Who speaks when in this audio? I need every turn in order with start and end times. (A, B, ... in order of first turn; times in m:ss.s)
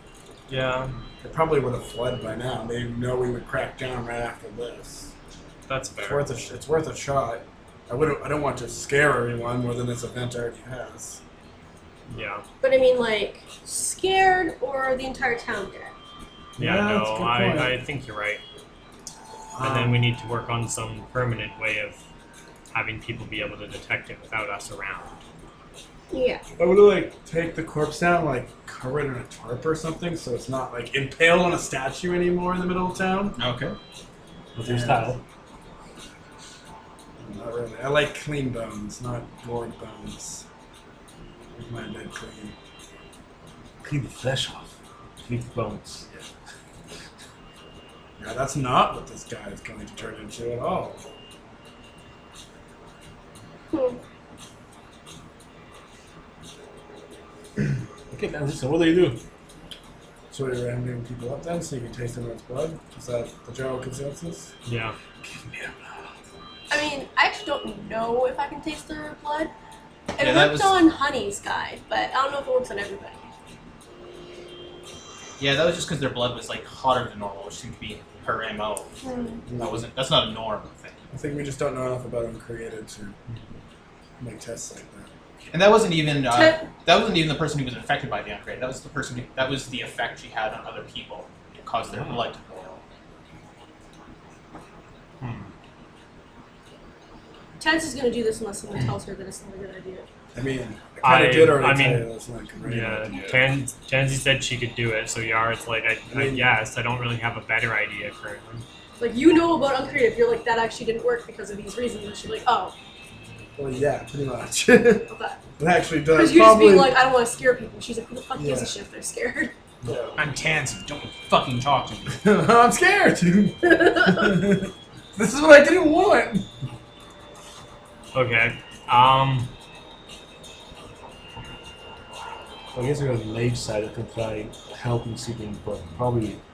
0:00.5-0:00.9 A
0:01.2-0:05.1 B
0:05.7-0:06.3 A
0:06.0-0:11.2 B
0:12.1-0:12.4 A
0:12.6-0:15.9 C
0:16.6-0:17.8 B
0:16.6-0:18.4 A
0:19.5-0:20.0 B
0:19.6-0:22.0 A
0:22.7-0:25.2 A
0:26.1-0:26.4 C
0:26.6-0:33.4 B
0:33.4-0:33.8 D
0:34.6-0:35.2 E
0:34.6-0:35.2 B
0:37.2-0:40.4 B
0:41.5-0:42.5 B
0:43.8-0:44.7 E
0:45.2-0:46.0 E
0:48.2-0:51.0 B
0:53.7-0:54.0 C
0:58.1-0:59.2 E
1:00.3-1:04.5 B
1:04.6-1:04.9 A
1:06.7-1:09.5 C
1:10.1-1:13.3 C
1:10.2-1:10.8 D
1:15.4-1:18.9 D
1:19.0-1:19.4 C
1:19.5-1:19.8 B
1:19.5-1:21.0 D
1:21.1-1:23.2 B
1:24.2-1:25.1 B
1:25.5-1:32.8 D
1:26.3-1:26.7 C
1:31.9-1:32.2 A
1:35.2-1:35.5 A
1:37.6-1:40.1 C
1:40.3-1:43.1 B
1:41.0-1:42.1 A
1:42.6-1:48.6 A
1:46.1-1:46.5 B
1:49.0-1:52.7 C
1:53.6-1:56.9 B
1:55.1-1:55.4 C
1:56.1-1:59.5 C
1:58.4-1:58.8 B
1:59.8-2:00.2 B
2:00.2-2:02.3 F
2:02.1-2:06.5 B
2:08.1-2:09.5 A
2:12.7-2:16.4 E